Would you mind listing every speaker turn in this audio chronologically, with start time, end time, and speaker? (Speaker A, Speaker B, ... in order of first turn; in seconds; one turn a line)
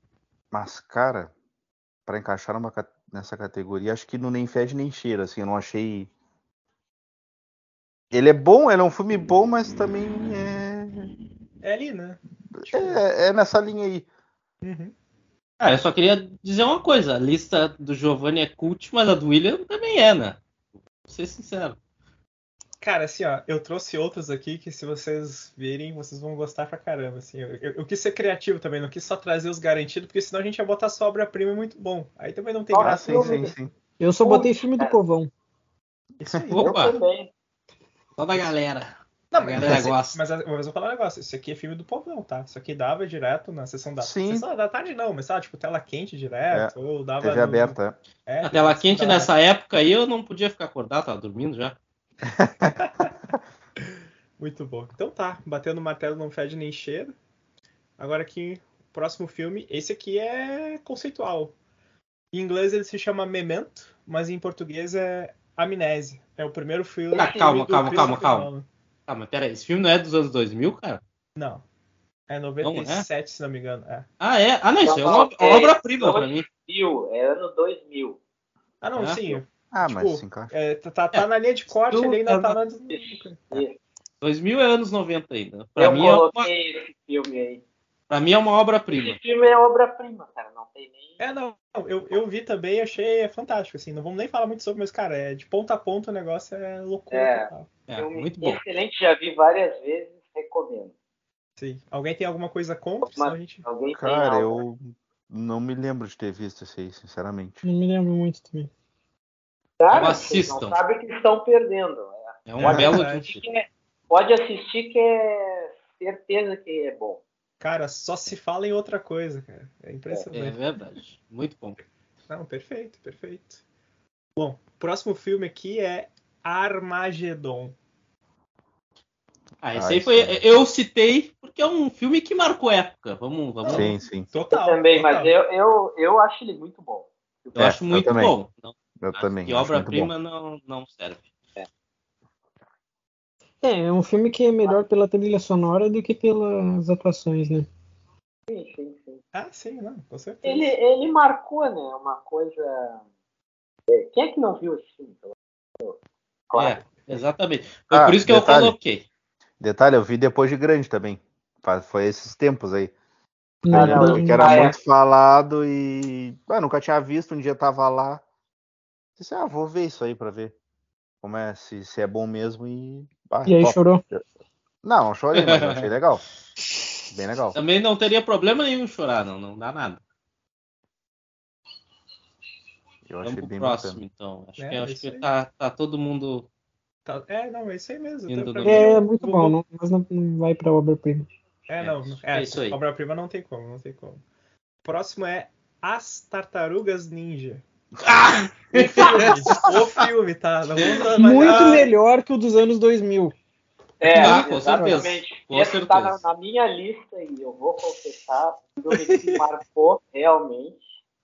Speaker A: 0.5-1.3
Speaker A: 2.1-6.1
Speaker A: 8.1-11.1
Speaker B: 11.6-13.0
Speaker A: 12.6-14.1
Speaker B: 14.6-14.9
Speaker C: 15.6-20.4
Speaker C: 21.1-21.8
Speaker B: 22.8-33.5
Speaker D: 32.7-33.5
Speaker A: 32.8-33.7
Speaker E: 34.0-35.3
Speaker D: 34.2-34.9
Speaker B: 36.2-36.8
Speaker C: 36.5-37.0
Speaker D: 36.5-37.3
Speaker C: 38.2-40.2
Speaker B: 39.3-49.3
Speaker A: 44.0-44.5
Speaker A: 46.5-48.0
Speaker C: 48.4-51.8
Speaker A: 52.3-52.8
Speaker B: 52.6-53.1
Speaker B: 54.4-57.1
Speaker B: 58.0-61.5
Speaker B: 62.3-68.7
Speaker C: 67.1-68.5
Speaker D: 67.1-67.4
Speaker C: 69.1-71.0
Speaker B: 71.4-71.7
Speaker B: 72.3-74.1
Speaker C: 72.6-73.1
Speaker C: 74.2-76.5
Speaker D: 74.8-78.2
Speaker B: 78.8-83.6
Speaker A: 79.7-80.5
Speaker C: 81.9-82.6
Speaker D: 82.9-83.8
Speaker C: 84.2-86.5
Speaker D: 85.8-87.6
Speaker C: 88.1-89.2
Speaker D: 88.9-91.2
Speaker B: 91.2-97.8
Speaker D: 97.1-100.9
Speaker C: 97.9-98.6
Speaker B: 101.6-103.7
Speaker D: 103.1-104.6
Speaker A: 103.9-107.6
Speaker E: 107.7-108.7
Speaker D: 109.8-117.2
Speaker C: 109.9-110.8
Speaker C: 112.5-113.4
Speaker A: 112.6-113.0
Speaker B: 112.6-113.4
Speaker B: 117.6-120.6
Speaker C: 120.3-121.8
Speaker B: 122.3-123.6
Speaker B: 124.4-127.8
Speaker C: 129.6-133.9
Speaker A: 129.8-130.4
Speaker B: 133.7-135.3
Speaker A: 133.7-134.3
Speaker D: 134.5-137.7
Speaker C: 137.6-141.2
Speaker A: 137.6-138.3
Speaker A: 139.0-140.1
Speaker E: 143.6-147.7
Speaker D: 148.5-149.2
Speaker B: 149.3-150.8
Speaker D: 150.4-153.0
Speaker D: 153.9-156.0
Speaker D: 156.5-157.2
Speaker C: 156.6-159.1
Speaker A: 157.9-158.8
Speaker A: 159.6-162.9
Speaker E: 163.6-164.7
Speaker A: 163.7-168.2
Speaker D: 163.7-164.8
Speaker A: 169.2-170.6
Speaker A: 171.2-174.2
Speaker E: 173.5-174.0
Speaker A: 174.8-176.2
Speaker C: 175.3-175.8
Speaker A: 177.1-177.6
Speaker C: 177.5-180.0
Speaker A: 183.1-184.0
Speaker C: 183.2-186.5
Speaker B: 184.6-185.3
Speaker B: 187.1-189.6
Speaker C: 188.3-188.9
Speaker E: 188.7-191.3
Speaker B: 191.7-194.2
Speaker C: 191.8-192.8
Speaker B: 194.8-197.6
Speaker C: 198.0-199.7
Speaker B: 198.7-201.9
Speaker C: 200.8-201.1
Speaker E: 201.2-203.3
Speaker D: 204.0-210.8
Speaker C: 204.1-206.2
Speaker E: 204.2-205.1
Speaker B: 208.9-209.4